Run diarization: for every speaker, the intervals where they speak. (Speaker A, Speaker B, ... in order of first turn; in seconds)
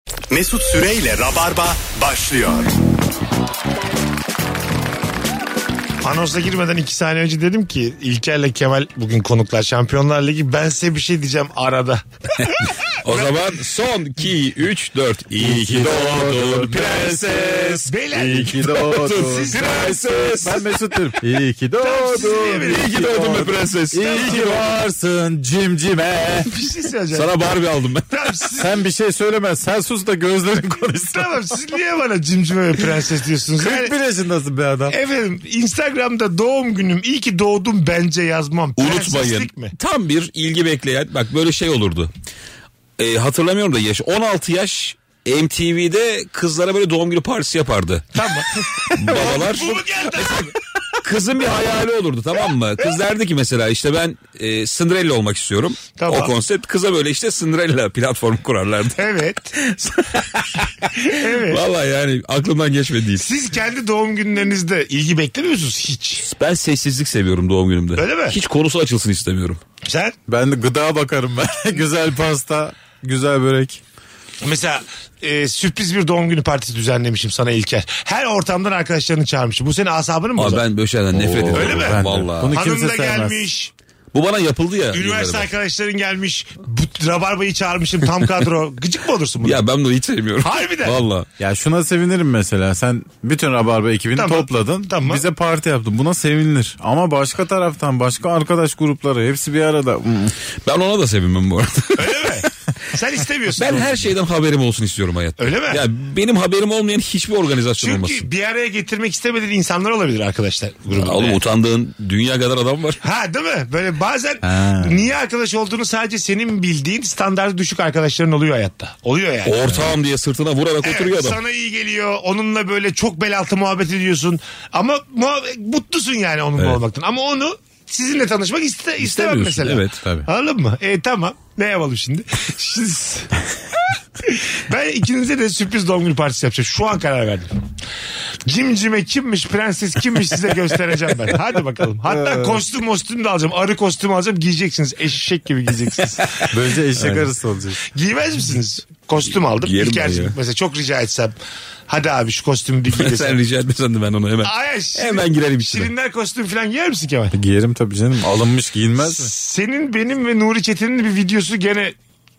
Speaker A: 0.3-2.7
Speaker B: 6.0-12.0, 13.1-13.3, 16.7-20.3, 21.8-22.9, 24.1-24.5, 26.5-27.5, 28.1-28.8, 31.1-33.9, 34.9-39.7, 48.1-50.5, 56.0-56.3, 59.0-59.6, 61.0-61.6, 63.2-66.2, 68.0-68.4, 69.8-70.2, 74.4-80.6, 81.5-82.0, 82.5-83.7, 84.9-89.6, 90.4-91.0, 94.2-95.2, 102.0-104.1, 105.4-105.8, 107.8-111.4, 113.0-119.8, 120.8-133.3, 134.2-137.6, 138.5-146.4, 147.9-151.4, 151.9-153.4, 154.4-157.3, 159.0-161.9
Speaker C: 12.4-17.9, 18.5-20.7, 22.6-24.6, 27.1-28.1, 38.8-42.1, 43.0-48.2, 48.9-59.0, 59.7-63.3, 66.2-69.6, 80.4-82.6, 84.1-85.5, 89.4-91.3, 100.7-102.3, 103.6-108.3, 110.9-113.0, 119.4-121.4, 129.0-130.0, 149.6-150.3, 152.9-155.9
Speaker D: 15.3-26.5, 28.6-31.6, 33.6-35.0, 70.3-73.8, 81.1-83.5, 91.4-100.4, 114.4-115.1, 142.1-142.6, 146.5-147.8, 157.3-159.3